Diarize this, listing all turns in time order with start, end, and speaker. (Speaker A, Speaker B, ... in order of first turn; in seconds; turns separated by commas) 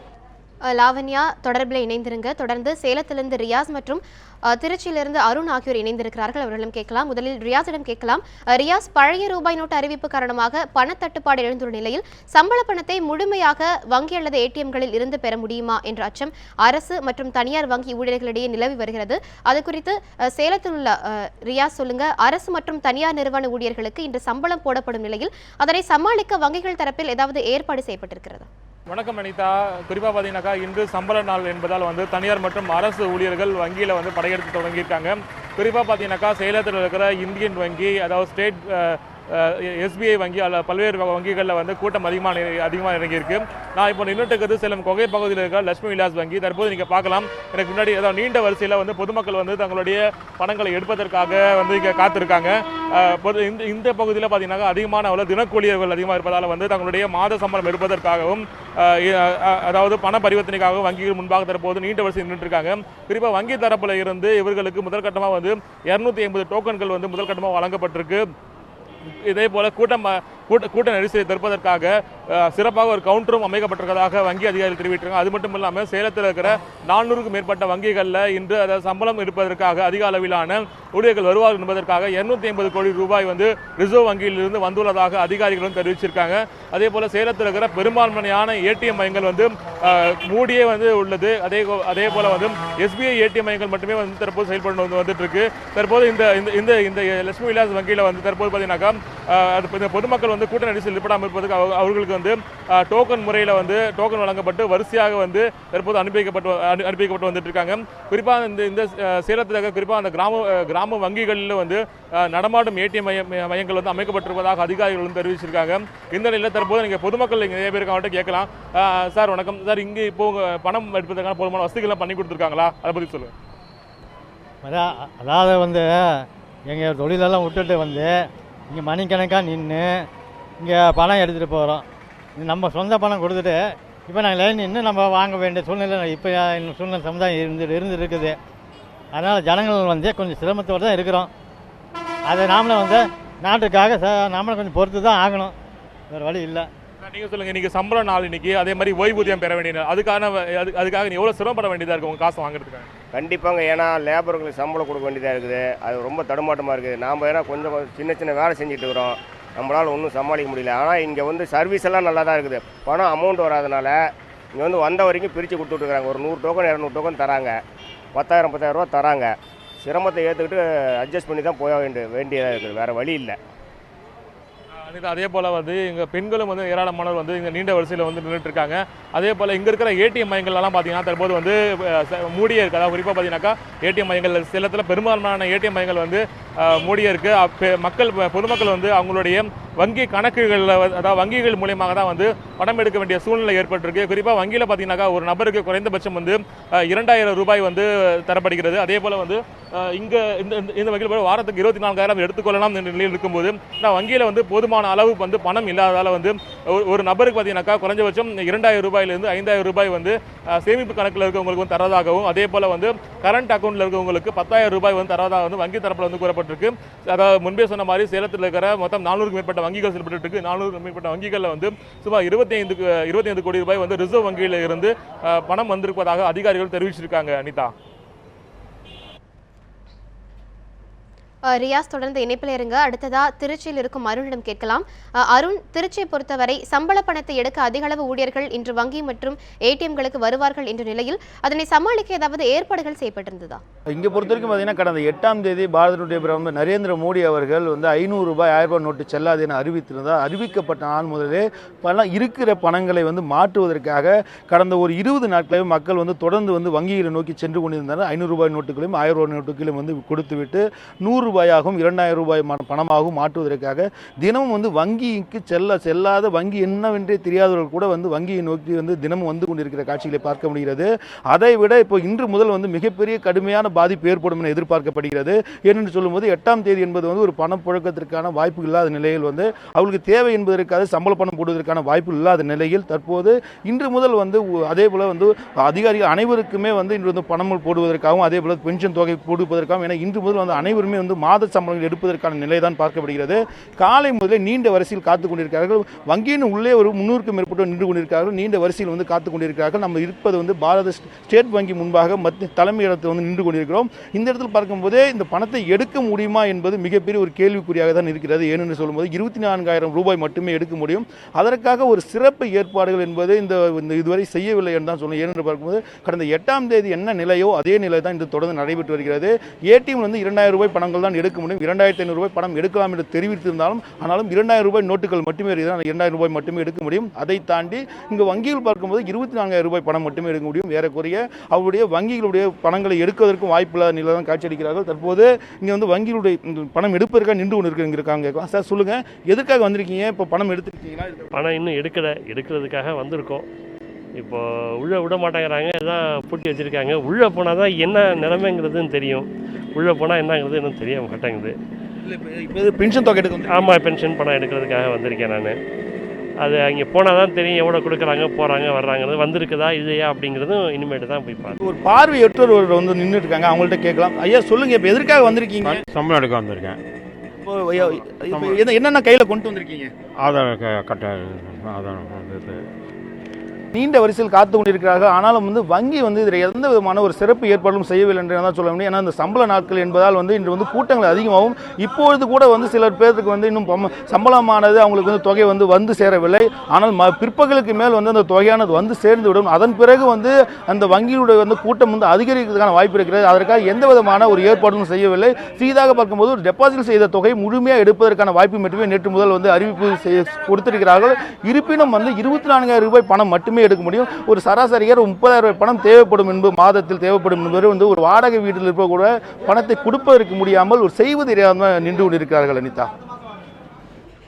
Speaker A: 0.7-28.5, Speaker B: 28.9-68.3, Speaker B: 69.0-123.3, Speaker C: 124.6-130.1, Speaker C: 130.6-131.8, Speaker C: 132.4-138.4, Speaker C: 139.1-141.3, Speaker C: 142.3-145.5, Speaker C: 146.1-146.7, Speaker B: 147.0-152.9, Speaker D: 153.1-164.0, Speaker D: 164.6-167.6, Speaker D: 168.2-173.4, Speaker B: 174.8-227.7, Speaker A: 231.5-243.6, Speaker E: 243.9-341.3, Speaker F: 341.3-343.5, Speaker F: 344.2-351.6, Speaker E: 352.1-353.7, Speaker F: 353.5-355.6, Speaker F: 356.4-361.6, Speaker E: 361.6-365.8, Speaker G: 365.6-366.8, Speaker E: 367.4-369.9, Speaker G: 368.3-368.6, Speaker G: 370.2-372.6, Speaker E: 373.8-412.9